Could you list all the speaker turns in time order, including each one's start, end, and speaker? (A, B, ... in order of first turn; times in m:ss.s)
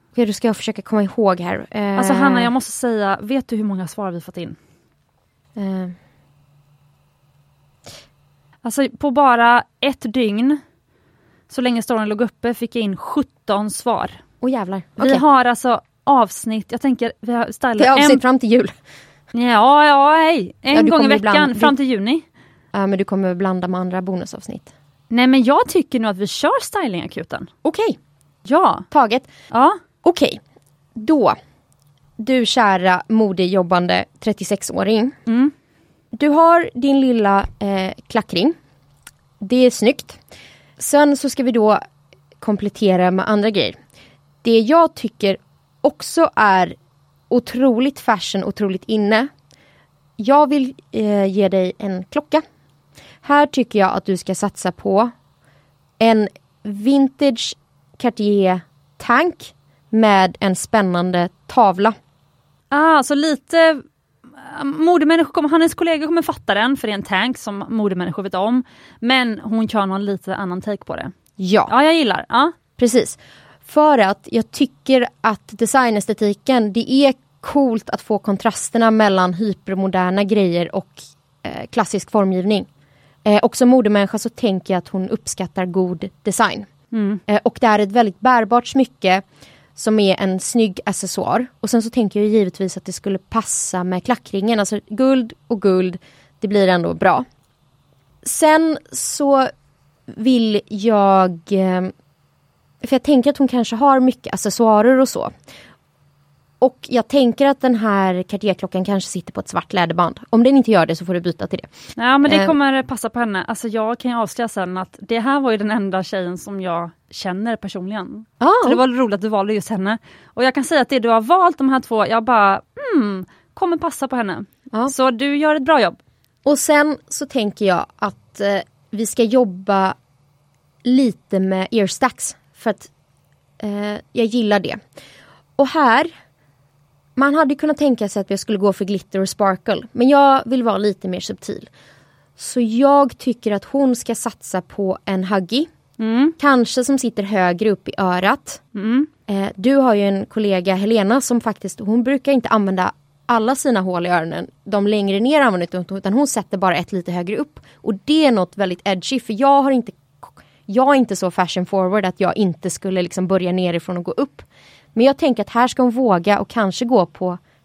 0:00.1-0:02.5 A
0:02.0-0:04.6 B
0:05.6-0:05.9 A
0:08.6-0:10.6 B
0:11.5-0:14.2 B
0:14.4-0:15.2 A
0:15.0-0:18.2 B
0:17.8-0:18.7 A
0:19.3-0:22.2 B
0:20.7-0:21.7 A
0:22.7-0:24.7 A
0:25.1-0:27.5 B
0:27.6-0:28.0 A
0:28.4-0:28.8 B
0:28.9-0:29.3 A
0:29.5-0:29.8 B
0:30.0-0:30.4 A
0:31.0-0:31.3 A
0:32.2-0:35.1 A
0:35.3-0:35.5 B
0:36.1-0:38.5 A
0:39.4-0:40.2 A
0:40.8-0:41.8 A
0:42.4-0:43.7 A
0:44.4-0:46.7 A
0:47.3-0:49.3 A
0:50.2-0:52.4 A
0:53.2-0:55.1 A
0:56.0-1:01.9 A
1:02.7-1:03.8 B
1:04.4-1:11.1 B
1:11.4-1:11.7 A
1:11.7-1:12.5 B
1:12.8-1:22.7 A
1:23.2-1:26.7 A
1:26.9-1:27.2 B
1:27.3-1:29.2 A
1:29.8-1:37.2 A
1:38.2-1:39.5 A
1:40.1-1:41.9 A
1:42.8-1:45.3 A
1:46.6-1:51.7 A
1:52.0-2:06.0 B
1:52.3-1:52.5 A
1:58.4-1:58.8 A
2:06.4-2:09.9 A
2:10.8-2:12.9 A
2:13.6-2:14.8 A
2:15.6-2:16.1 A
2:17.2-2:21.7 A
2:22.4-2:25.7 A
2:26.0-2:26.3 B
2:26.4-2:28.6 A
2:28.7-2:29.1 B
2:29.3-2:47.4 A